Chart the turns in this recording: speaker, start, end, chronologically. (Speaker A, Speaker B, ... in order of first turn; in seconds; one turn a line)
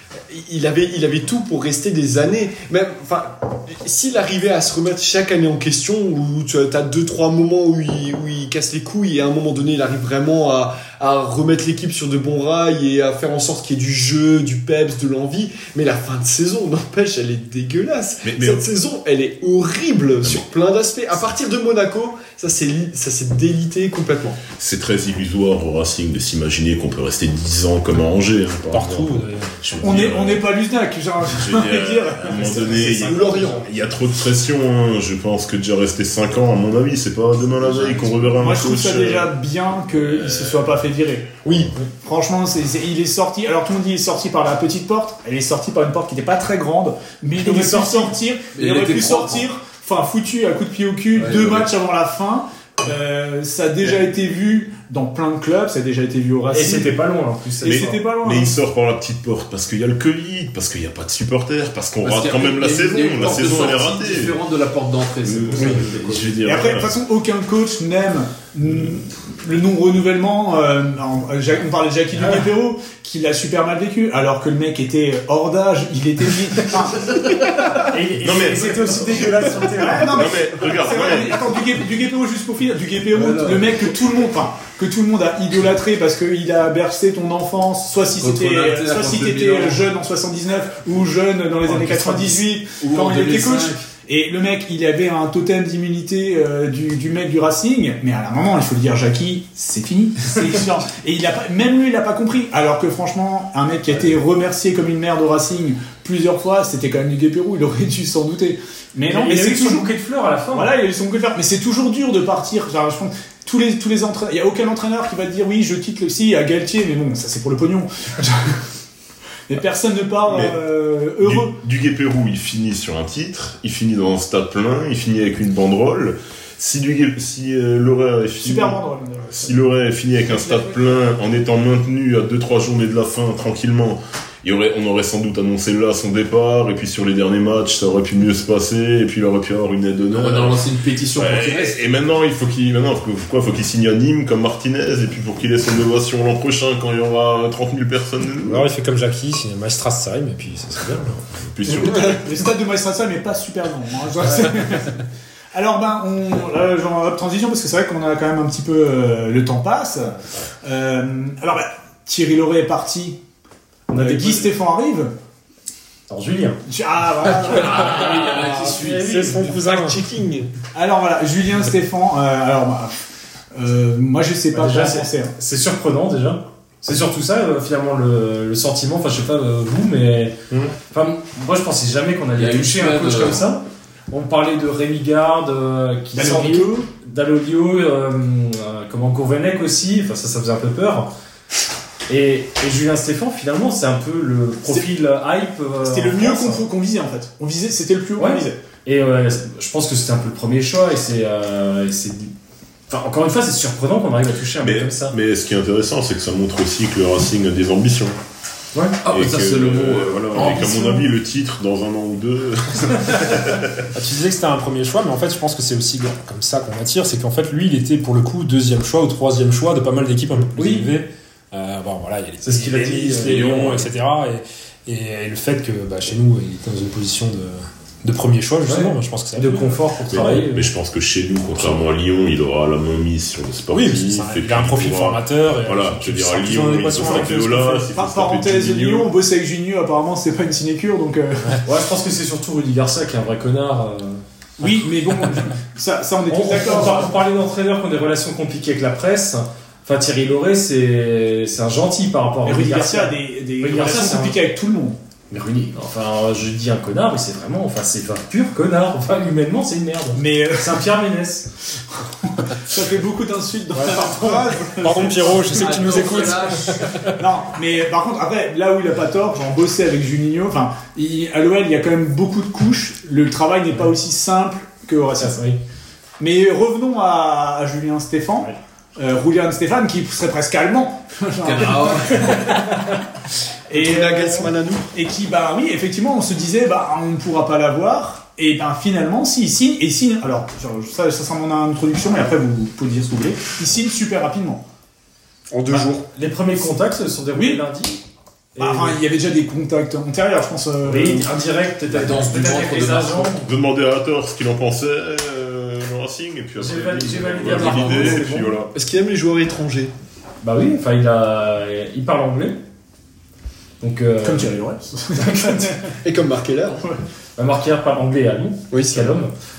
Speaker A: 0.3-24.4
Speaker B: 18.2-18.6
Speaker B: 24.5-30.4
Speaker C: 28.7-29.9
Speaker D: 29.8-33.6
Speaker B: 31.2-39.4
Speaker A: 32.9-33.6
Speaker D: 38.4-41.3
Speaker B: 39.9-40.8
Speaker A: 41.4-41.7
Speaker B: 41.5-41.7
Speaker D: 42.0-56.9
Speaker E: 47.4-48.1
Speaker F: 48.5-49.5
Speaker F: 51.1-51.7
Speaker E: 56.5-58.0
Speaker D: 57.6-58.6
Speaker B: 57.6-64.4
Speaker F: 62.0-66.3
Speaker B: 65.2-66.9
Speaker D: 66.4-77.1
Speaker E: 77.9-80.3
Speaker B: 78.2-81.6
Speaker D: 78.6-109.9
Speaker F: 83.1-83.7
Speaker F: 88.1-89.9
Speaker F: 91.9-93.8
Speaker E: 109.1-110.7
Speaker D: 110.5-118.6
Speaker D: 119.5-121.6
Speaker B: 120.2-120.6
Speaker B: 121.2-140.6
Speaker D: 128.4-129.6
Speaker D: 130.3-131.0
Speaker F: 140.1-141.8
Speaker B: 141.1-148.7
Speaker C: 148.4-151.3
Speaker B: 151.5-152.3
Speaker D: 151.8-155.0
Speaker D: 155.5-163.2
Speaker E: 163.9-164.5
Speaker D: 163.9-165.1
Speaker E: 166.1-166.6
Speaker D: 166.7-167.9
Speaker F: 167.3-169.1
Speaker C: 167.8-170.0
Speaker E: 167.8-169.5
Speaker A: 167.9-170.5
Speaker D: 170.7-175.3
Speaker E: 174.5-180.3
Speaker E: 180.9-191.1
Speaker F: 182.3-183.4
Speaker D: 186.1-186.9
Speaker E: 192.1-196.6
Speaker D: 195.8-198.6
Speaker E: 198.2-202.3
Speaker E: 202.9-205.1
Speaker B: 204.6-208.2
Speaker F: 209.0-210.6
Speaker B: 209.1-213.8
Speaker D: 210.3-211.1
Speaker C: 213.9-229.8
Speaker E: 220.6-220.9
Speaker E: 222.4-223.8
Speaker F: 223.2-223.8
Speaker E: 228.7-230.7
Speaker B: 230.1-239.1
Speaker C: 233.7-237.9
Speaker D: 237.9-241.6
Speaker E: 241.6-244.2
Speaker D: 244.6-247.2
Speaker E: 246.3-254.4
Speaker D: 252.4-255.0
Speaker E: 255.3-261.5
Speaker D: 260.1-260.9
Speaker D: 262.0-266.2
Speaker C: 264.1-267.2
Speaker F: 265.2-267.0
Speaker D: 267.1-275.4
Speaker E: 275.1-275.6
Speaker D: 276.2-282.8
Speaker F: 281.4-282.6
Speaker E: 282.4-282.9
Speaker D: 283.7-294.6
Speaker A: 283.7-284.9
Speaker A: 295.5-296.1
Speaker E: 295.7-298.0
Speaker D: 297.3-297.6
Speaker E: 298.6-299.0
Speaker D: 298.6-301.3
Speaker E: 300.9-303.5
Speaker F: 301.9-303.3
Speaker B: 303.4-308.7
Speaker E: 306.6-308.6
Speaker A: 307.7-308.2
Speaker A: 308.7-309.9
Speaker E: 310.4-312.6
Speaker E: 313.8-314.5
Speaker D: 314.2-315.9
Speaker E: 315.1-315.6
Speaker A: 316.0-316.8
Speaker E: 317.4-319.3
Speaker A: 318.7-319.2